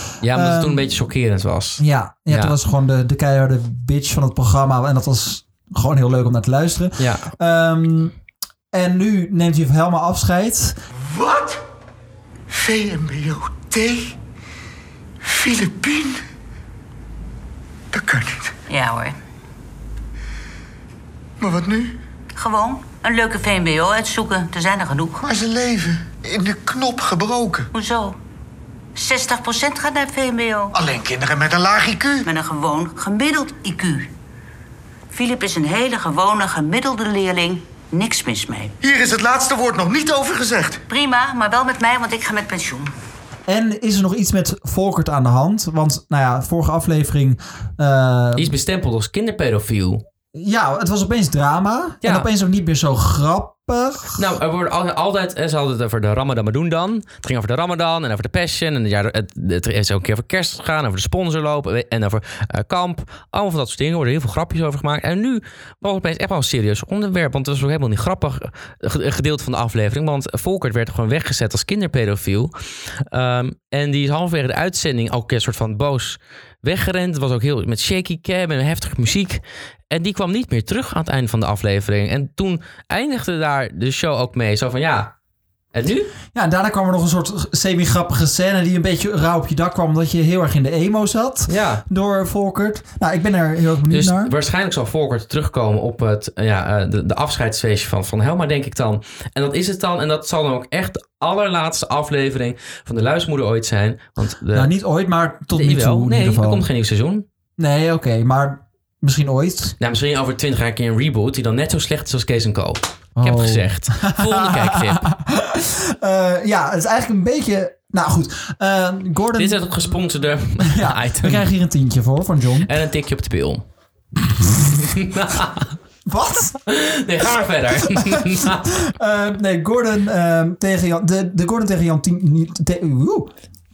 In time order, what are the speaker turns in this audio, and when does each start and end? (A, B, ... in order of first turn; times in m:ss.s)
0:00.2-0:02.5 A
0:00.2-0:00.9 B
0:01.8-0:08.1 B
0:07.0-0:07.3 A
0:08.7-0:10.8 B
0:11.0-0:11.6 C
0:12.5-0:14.1 C
0:15.2-0:16.2 C
0:17.9-0:18.5 C
0:18.7-0:19.1 D
0:21.4-0:22.0 C
0:22.3-0:25.2 D
0:25.2-0:27.7 C
0:27.7-0:28.2 D
0:29.0-0:30.7 D
0:30.7-0:32.2 C
0:32.2-0:34.1 D
0:35.1-0:38.7 D
0:38.8-0:40.8 C
0:40.9-0:42.9 D
0:43.5-0:48.5 B
0:48.4-0:50.0 A
0:50.3-0:54.2 B
0:54.1-1:12.5 A
1:13.1-1:25.1 A
1:25.7-1:26.1 A
1:26.3-1:34.3 B
1:31.5-1:31.8 A
1:33.9-1:44.7 A
1:44.5-1:46.6 B
1:45.5-1:47.2 A
1:47.6-1:49.7 B
1:49.8-1:55.0 A
1:53.2-1:59.6 B
1:59.4-2:01.4 A
2:00.6-2:02.7 B
2:02.6-2:03.6 A
2:04.9-2:05.7 A
2:06.0-2:06.6 B
2:06.6-2:08.7 A
2:07.9-2:13.3 B